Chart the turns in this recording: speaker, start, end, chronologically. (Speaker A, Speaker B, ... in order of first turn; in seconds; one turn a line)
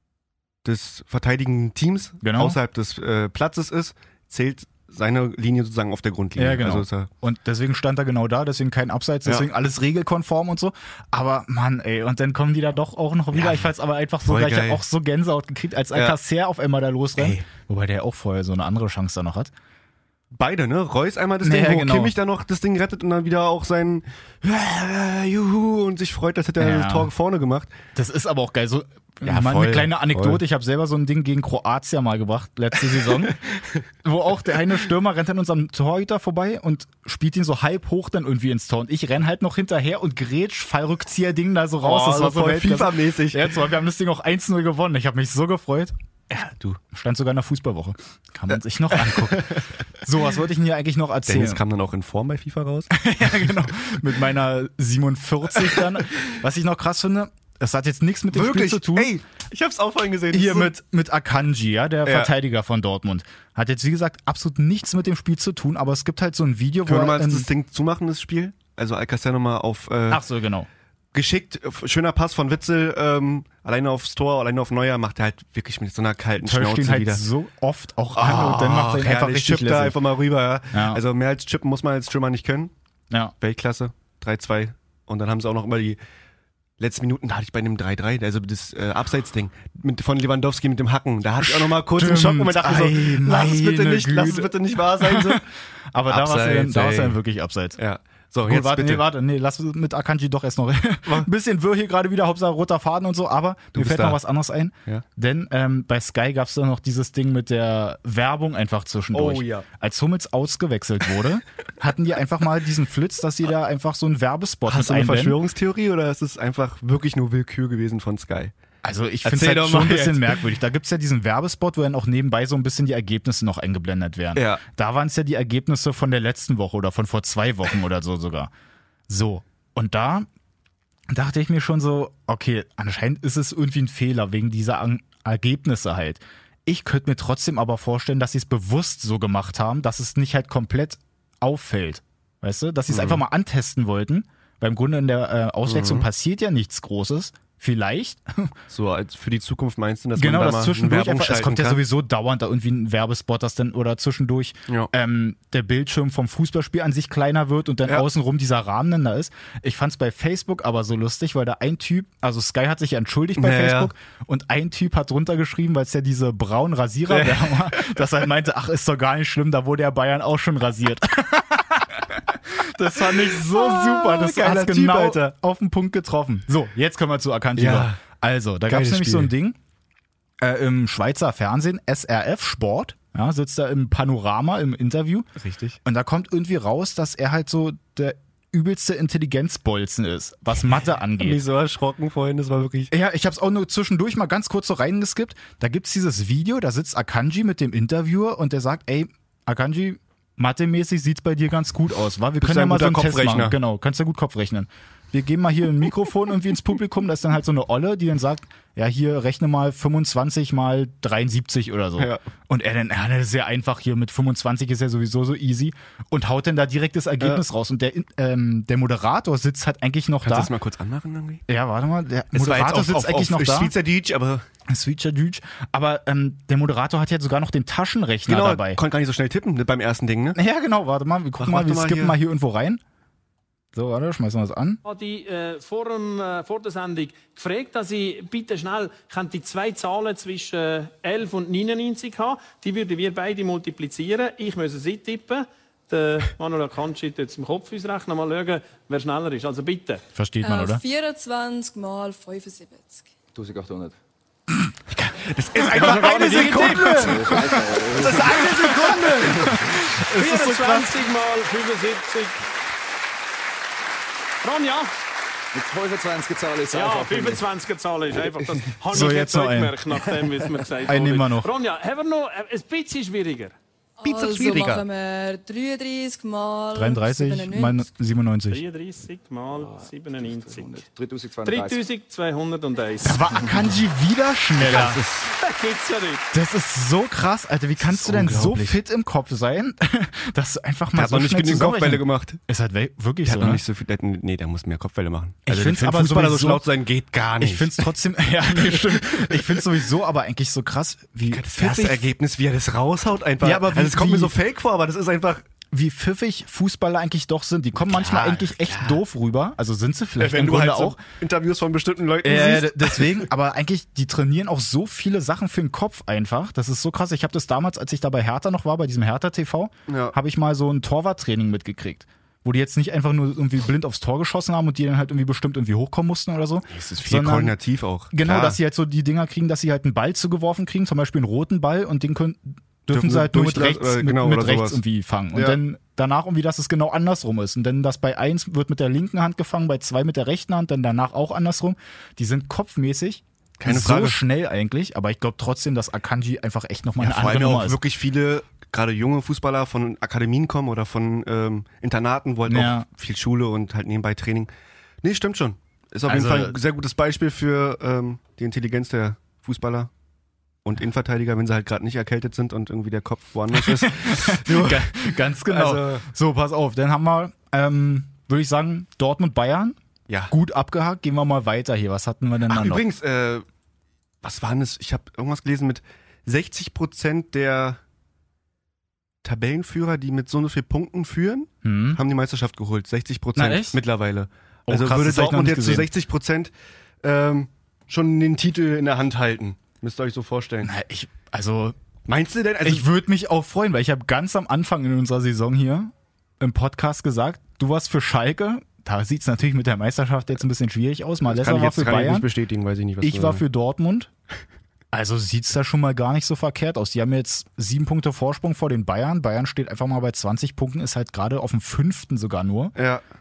Speaker A: 0.7-7.1
Speaker B: 2.2-2.6
Speaker B: 6.4-19.5
Speaker A: 13.3-13.6
Speaker A: 14.2-14.8
Speaker A: 17.2-17.5
Speaker A: 20.3-27.8
Speaker B: 21.4-22.1
Speaker B: 26.6-27.1
Speaker B: 27.9-33.4
Speaker A: 29.2-30.4
Speaker B: 34.0-45.9
Speaker A: 41.8-43.5
Speaker A: 46.3-46.8
Speaker B: 46.9-51.6
Speaker A: 48.9-49.7
Speaker A: 51.3-52.9
Speaker B: 52.9-59.1
Speaker A: 58.3-60.7
Speaker B: 60.3-67.5
Speaker A: 62.0-62.3
Speaker A: 66.9-70.2
Speaker B: 70.1-70.7
Speaker A: 71.1-77.2
Speaker B: 76.4-80.0
Speaker A: 78.2-82.7
Speaker B: 80.7-81.0
Speaker A: 83.4-86.0
Speaker A: 86.8-95.5
Speaker B: 91.4-97.8
Speaker A: 96.1-97.2
Speaker A: 97.8-99.0
Speaker B: 98.5-115.4
Speaker A: 103.7-104.2
Speaker A: 109.1-109.7
Speaker A: 114.7-118.5
Speaker B: 118.8-128.5
Speaker A: 119.2-120.4
Speaker A: 124.3-124.6
Speaker B: 129.1-130.3
Speaker B: 131.1-148.6
Speaker A: 142.9-143.2
Speaker A: 145.7-146.1
Speaker A: 148.7-151.8
Speaker B: 150.2-179.6
Speaker A: 163.4-163.9
Speaker A: 167.1-168.0
Speaker A: 173.0-175.3
Speaker A: 177.6-178.0
Speaker A: 178.7-179.3
Speaker B: 180.4-185.3
Speaker A: 185.4-185.8
Speaker B: 185.8-191.4
Speaker A: 191.2-192.9
Speaker B: 192.9-220.5
Speaker A: 202.4-203.6
Speaker A: 220.2-221.4
Speaker B: 221.5-223.7
Speaker A: 222.3-224.5
Speaker B: 224.7-228.8
Speaker A: 228.3-230.4
Speaker B: 230.4-232.8
Speaker A: 231.4-232.2
Speaker B: 233.7-234.8
Speaker C: 234.8-250.0
Speaker B: 250.2-250.8
Speaker D: 250.4-253.1
Speaker E: 253.3-253.9
Speaker A: 254.9-260.8
Speaker B: 255.7-257.7
Speaker C: 255.7-257.3
Speaker E: 256.9-258.5
Speaker B: 258.2-260.9
Speaker C: 260.1-262.4
Speaker C: 264.4-264.9
Speaker E: 265.5-267.4
Speaker C: 266.7-273.5
Speaker B: 268.9-269.8
Speaker B: 270.9-271.5
Speaker D: 274.0-277.9
Speaker A: 274.0-274.9
Speaker B: 276.7-278.6
Speaker C: 278.5-280.9
Speaker E: 279.7-281.8
Speaker C: 281.4-283.5
Speaker B: 283.0-285.0
Speaker A: 284.6-285.3
Speaker C: 285.2-286.3
Speaker B: 286.3-293.6
Speaker A: 287.8-288.8
Speaker A: 290.9-292.4
Speaker A: 293.2-297.9
Speaker B: 295.5-296.6
Speaker B: 297.4-302.1
Speaker A: 298.5-299.6
Speaker A: 301.3-305.4
Speaker B: 303.4-304.3
Speaker B: 305.7-311.0
Speaker A: 307.8-309.0
Speaker A: 310.2-313.3
Speaker B: 312.2-327.6
Speaker A: 319.9-320.1
Speaker A: 326.7-328.6
Speaker B: 328.1-347.8
Speaker A: 332.9-334.8
Speaker A: 335.3-335.6
Speaker A: 343.6-344.2
Speaker A: 347.0-354.5
Speaker B: 352.5-352.9
Speaker A: 355.0-359.9
Speaker B: 356.1-356.6
Speaker A: 360.6-366.1
Speaker B: 363.5-369.8
Speaker B: 370.3-372.8
Speaker A: 372.5-373.4
Speaker A: 374.2-377.8
Speaker A: 379.2-390.7
Speaker B: 381.6-382.0
Speaker B: 383.4-383.8
Speaker B: 384.7-385.9
Speaker B: 390.6-391.8
Speaker A: 392.1-392.9
Speaker B: 392.6-402.3
Speaker A: 401.3-403.4
Speaker B: 403.0-404.1
Speaker B: 404.9-412.8
Speaker A: 412.8-413.0